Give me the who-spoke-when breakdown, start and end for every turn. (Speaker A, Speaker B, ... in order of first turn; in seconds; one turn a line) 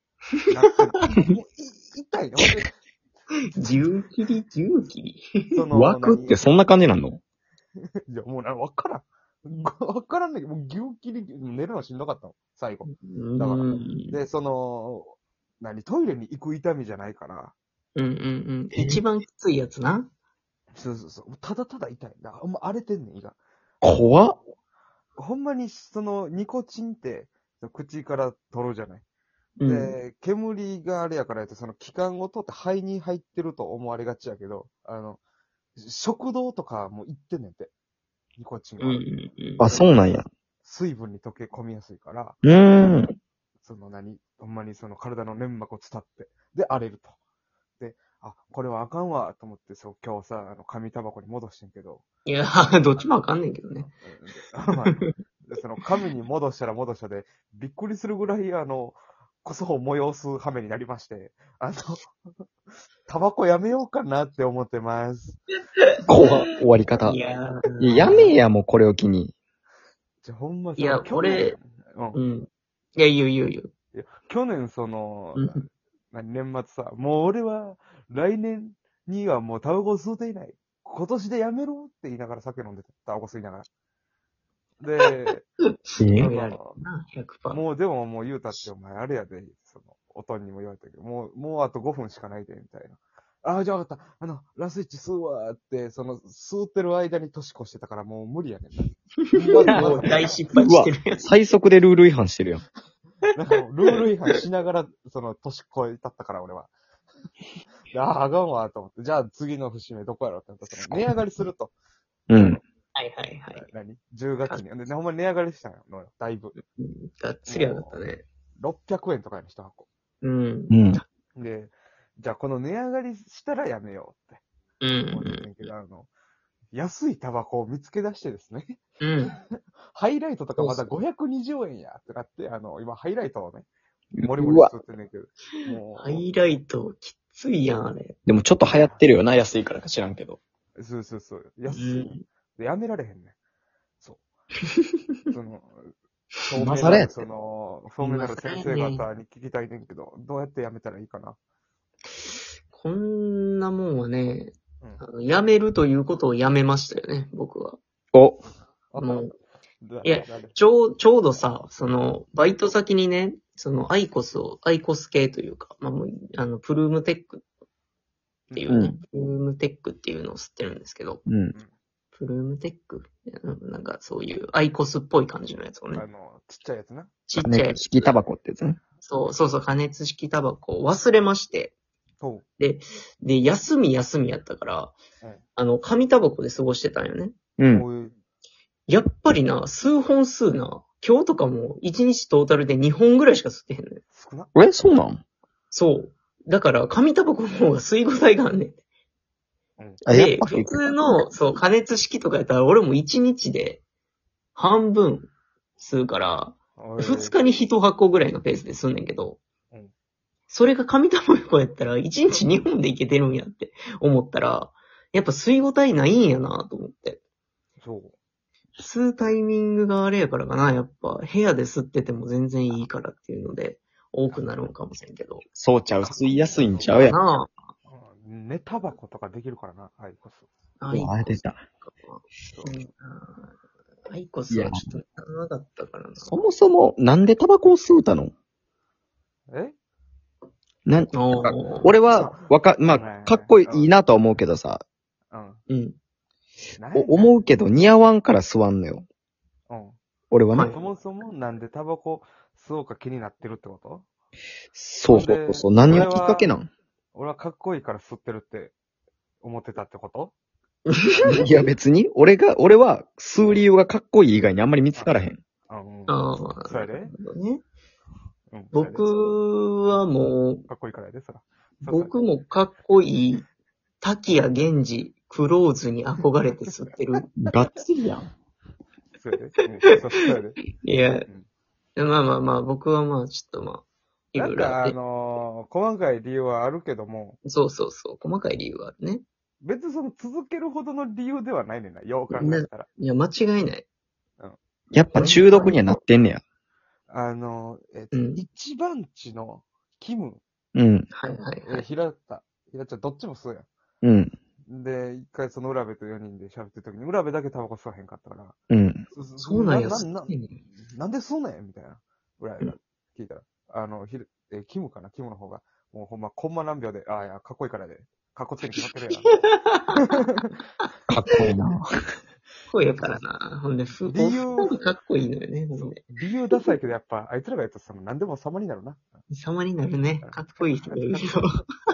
Speaker A: 0.4-0.7
Speaker B: 0.5-2.8
Speaker A: 3.5-5.6
Speaker B: 5.5-6.4
Speaker C: 5.7-7.2
Speaker B: 8.1-17.6
Speaker A: 12.8-14.2
Speaker A: 17.9-20.1
Speaker C: 18.7-19.0
Speaker B: 20.8-23.4
Speaker C: 23.8-24.4
Speaker B: 25.2-29.1
Speaker A: 29.6-29.9
Speaker B: 29.6-35.2
Speaker B: 35.8-37.7
Speaker B: 38.4-39.1
Speaker A: 38.8-39.6
Speaker C: 39.6-40.3
Speaker B: 39.6-42.4
Speaker C: 42.4-43.1
Speaker B: 43.6-47.1
Speaker B: 47.8-52.0
Speaker A: 52.3-53.9
Speaker B: 54.0-62.3
Speaker A: 54.8-55.1
Speaker B: 63.1-65.4
Speaker A: 65.8-66.3
Speaker C: 66.1-67.2
Speaker A: 67.0-68.2
Speaker C: 67.8-69.3
Speaker B: 68.0-68.3
Speaker B: 70.2-72.2
Speaker A: 70.8-71.5
Speaker A: 72.1-73.7
Speaker B: 73.9-83.7
Speaker A: 75.3-75.7
Speaker B: 84.8-85.5
Speaker C: 86.0-86.3
Speaker A: 86.1-87.6
Speaker B: 86.2-86.8
Speaker B: 87.5-100.4
Speaker A: 99.2-101.3
Speaker C: 99.7-100.0
Speaker C: 100.5-102.6
Speaker B: 103.3-106.7
Speaker B: 107.9-111.7
Speaker C: 112.3-112.6
Speaker B: 112.3-112.6
Speaker A: 113.0-113.7
Speaker B: 113.5-116.5
Speaker A: 116.6-118.3
Speaker B: 117.5-118.0
Speaker B: 118.6-119.9
Speaker A: 120.2-121.0
Speaker C: 120.7-121.0
Speaker B: 121.3-124.4
Speaker A: 124.8-125.7
Speaker B: 125.1-126.1
Speaker B: 126.7-128.8
Speaker A: 129.0-129.4
Speaker B: 129.9-133.7
Speaker A: 130.6-130.9
Speaker C: 134.2-134.7
Speaker B: 134.2-136.3
Speaker A: 135.9-138.2
Speaker C: 138.3-140.4
Speaker B: 138.7-139.0
Speaker B: 140.8-143.3
Speaker A: 141.7-142.2
Speaker B: 145.3-151.4
Speaker A: 146.6-147.0
Speaker C: 146.6-147.2
Speaker A: 148.0-149.0
Speaker A: 152.2-157.8
Speaker C: 158.1-158.4
Speaker B: 158.9-159.2
Speaker A: 159.0-159.3
Speaker B: 159.8-160.6
Speaker A: 160.0-167.4
Speaker B: 168.5-168.8
Speaker A: 168.5-171.2
Speaker C: 168.7-169.0
Speaker C: 171.3-171.5
Speaker A: 172.1-176.0
Speaker B: 175.9-177.2
Speaker A: 177.3-178.1
Speaker C: 177.4-178.8
Speaker A: 179.0-181.8
Speaker A: 182.6-185.0
Speaker A: 185.6-187.3
Speaker C: 187.6-187.9
Speaker B: 187.7-188.1
Speaker A: 188.9-194.0
Speaker B: 194.1-194.5
Speaker C: 194.5-195.2
Speaker A: 195.7-198.8
Speaker C: 200.1-200.8
Speaker A: 200.1-203.8
Speaker A: 204.5-209.4
Speaker B: 206.8-207.4
Speaker A: 210.5-217.2
Speaker B: 217.8-218.1
Speaker A: 218.8-225.5
Speaker C: 225.6-227.2
Speaker B: 226.0-226.9
Speaker A: 226.8-227.5
Speaker B: 227.9-230.5
Speaker A: 230.8-233.5
Speaker C: 230.9-231.6
Speaker B: 232.4-232.7
Speaker A: 234.1-236.4
Speaker C: 234.5-234.8
Speaker C: 236.3-238.3
Speaker B: 239.5-239.8
Speaker C: 240.8-244.8
Speaker A: 241.1-241.9
Speaker B: 242.1-243.9
Speaker B: 245.3-245.6
Speaker A: 245.7-246.0
Speaker B: 246.8-247.4
Speaker C: 246.9-249.1
Speaker B: 249.7-250.0
Speaker C: 250.3-250.8
Speaker A: 250.5-250.8
Speaker B: 250.6-254.0
Speaker C: 254.7-256.7
Speaker B: 255.1-256.5
Speaker B: 257.1-258.8
Speaker B: 259.4-260.3
Speaker A: 260.9-261.5
Speaker C: 261.3-265.4
Speaker B: 265.0-267.1
Speaker A: 266.1-267.6
Speaker B: 268.5-269.1
Speaker A: 268.7-270.6
Speaker B: 270.6-272.1
Speaker A: 271.9-273.5
Speaker A: 274.0-277.3
Speaker C: 277.4-278.3
Speaker B: 279.1-280.6
Speaker A: 280.7-281.2
Speaker A: 282.0-284.9
Speaker B: 284.4-287.4
Speaker A: 287.4-289.2
Speaker B: 289.6-292.9
Speaker A: 292.3-293.9
Speaker C: 294.9-296.4
Speaker A: 295.1-295.8
Speaker B: 297.1-300.4
Speaker A: 298.1-298.4
Speaker C: 300.8-301.1
Speaker A: 301.1-301.8
Speaker B: 301.6-303.6
Speaker C: 304.0-304.3
Speaker B: 304.7-308.6
Speaker C: 308.7-309.0
Speaker B: 309.1-319.4
Speaker A: 309.4-310.6
Speaker A: 319.1-320.3
Speaker C: 321.1-321.9
Speaker A: 322.7-326.7
Speaker B: 324.1-324.8
Speaker B: 325.8-329.1
Speaker A: 329.3-331.5
Speaker B: 330.2-331.2